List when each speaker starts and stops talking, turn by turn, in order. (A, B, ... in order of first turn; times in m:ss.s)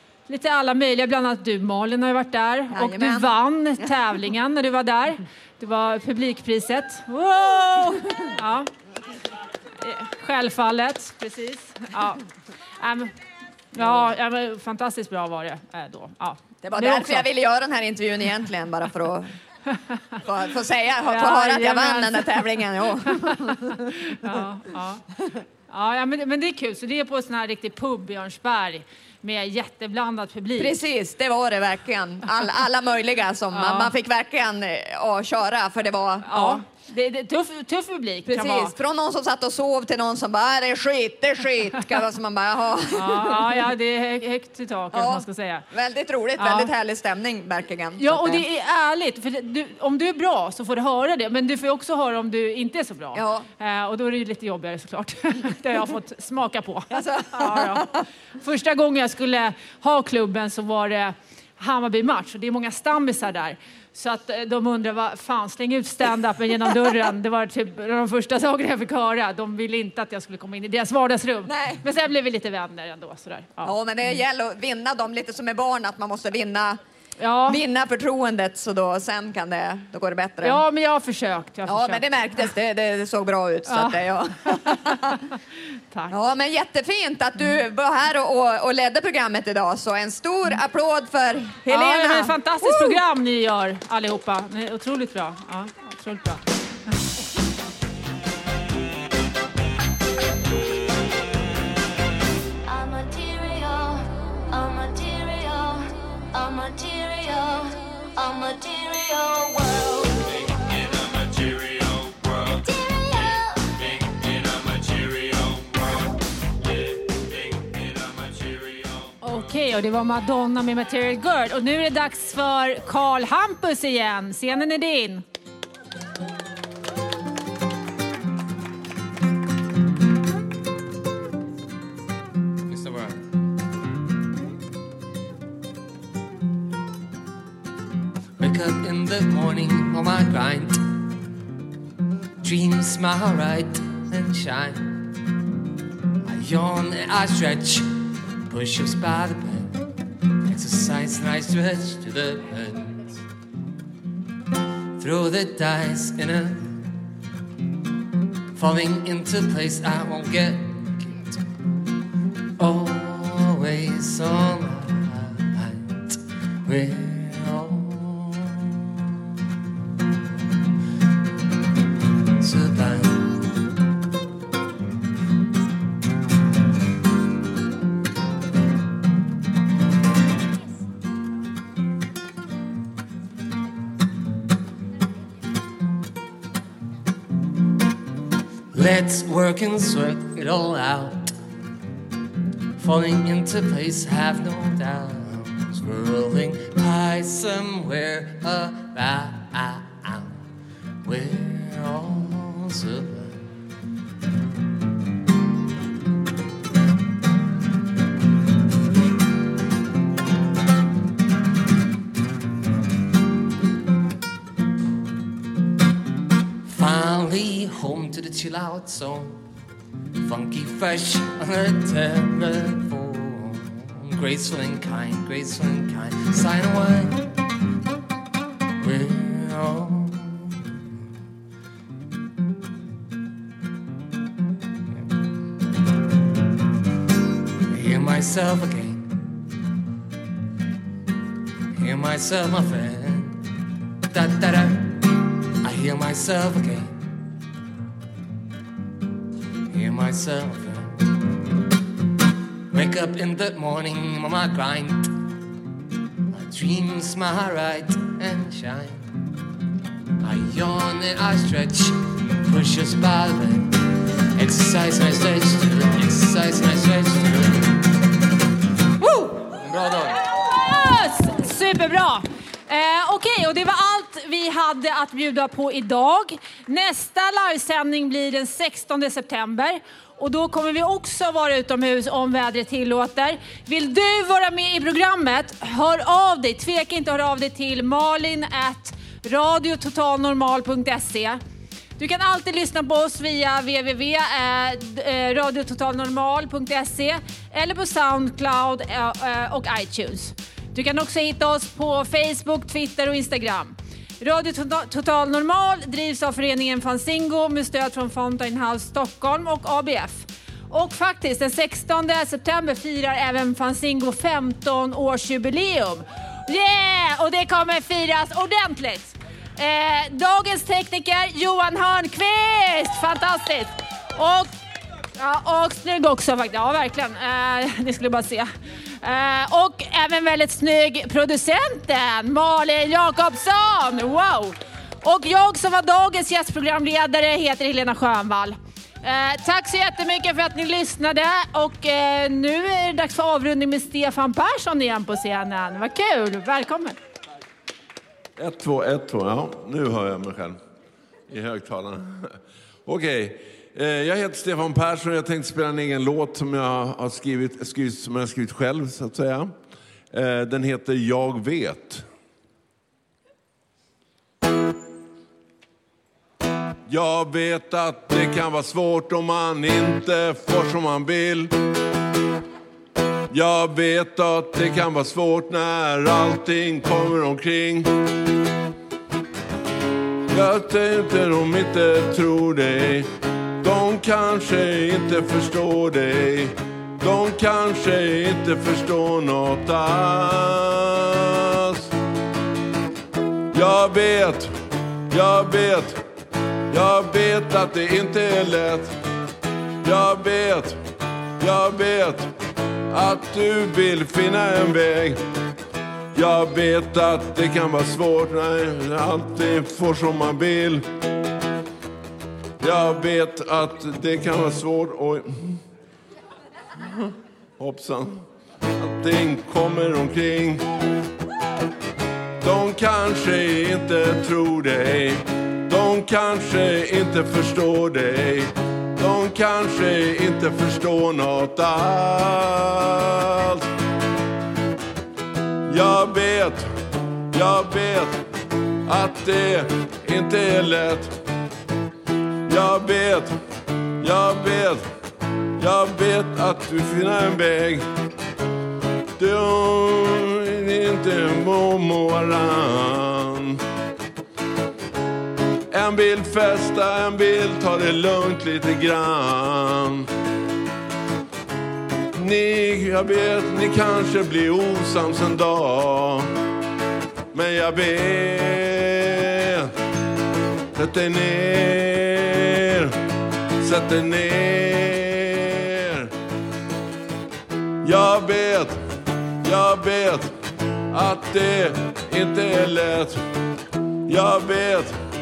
0:00.3-0:08.7 A
0:02.7-0:03.9 B
0:09.8-0:12.2 A
0:12.8-0:13.1 A
0:13.7-0:17.3 A
0:16.6-0:19.3 B
0:20.2-0:24.4 B
0:21.0-0:25.0 A
0:25.7-0:30.8 A
0:30.6-0:36.6 B
0:33.5-0:33.9 A
0:36.2-0:38.7 A
0:38.2-0:43.7 B
0:42.9-0:45.6 A
0:44.9-0:48.4 B
0:46.4-0:46.7 A
0:48.0-1:14.2 A
0:53.1-0:53.5 B
0:56.9-0:58.0 B
1:11.4-1:11.8 B
1:13.6-1:16.8 B
1:17.2-1:17.6 A
1:17.4-1:20.6 B
1:20.4-1:22.0 A
1:21.6-1:25.2 B
1:23.7-1:25.4 A
1:26.1-1:33.0 B
1:31.7-1:36.4 A
1:42.6-1:51.5 C
1:52.4-1:54.0 C
1:59.2-2:05.2 A
2:12.7-2:13.2 D
2:18.4-2:20.8 D
2:22.4-2:24.8 D
2:26.2-2:27.9 D
2:28.5-2:29.8 D
2:30.4-2:33.2 D
2:35.0-2:36.8 D
2:38.5-2:41.4 D
2:42.6-2:48.9 D
2:52.4-2:53.4 D
3:08.7-3:11.3 D
3:12.8-3:20.4 D
3:21.0-3:23.4 D
3:36.6-3:39.4 D
3:40.2-3:47.3 D
3:48.8-3:50.6 D
3:57.7-3:59.0 D
4:01.7-4:03.4 D
4:04.1-4:05.0 D
4:05.6-4:06.9 D
4:09.7-4:11.0 D
4:12.7-4:15.1 D
4:16.3-4:19.1 D
4:20.2-4:23.8 D
4:24.4-4:27.7 D
4:29.0-4:51.4 A
4:29.5-4:30.2 D
4:52.0-5:24.5 A
5:25.2-5:47.0 A
5:48.4-5:50.6 E
5:51.3-5:52.3 E
5:52.8-5:59.5 E
6:00.1-6:02.0 E
6:06.9-6:11.5 E
6:13.3-6:17.9 E
6:20.3-6:23.1 E
6:23.6-6:31.9 E
6:33.5-6:34.5 E
6:35.1-6:36.0 E
6:36.7-6:38.9 E
6:39.8-6:40.8 E
6:41.4-6:42.3 E
6:42.9-6:45.2 E
6:46.1-6:50.8 E
6:52.6-6:55.6 E
6:56.9-6:58.2 E
6:58.8-7:00.6 E
7:02.4-7:13.6 E
7:15.7-7:16.7 E
7:17.3-7:18.2 E
7:18.9-7:21.1 E
7:22.5-7:23.3 E
7:24.0-7:24.8 E
7:25.6-7:27.8 E
7:29.2-7:33.6 E
7:35.7-7:40.1 E
7:42.1-7:46.3 E
7:47.3-7:49.7 E
7:50.7-7:52.9 E
7:53.6-7:56.1 E
7:57.8-7:58.8 E
7:59.4-8:00.3 E
8:00.9-8:03.2 E
8:04.1-8:04.9 E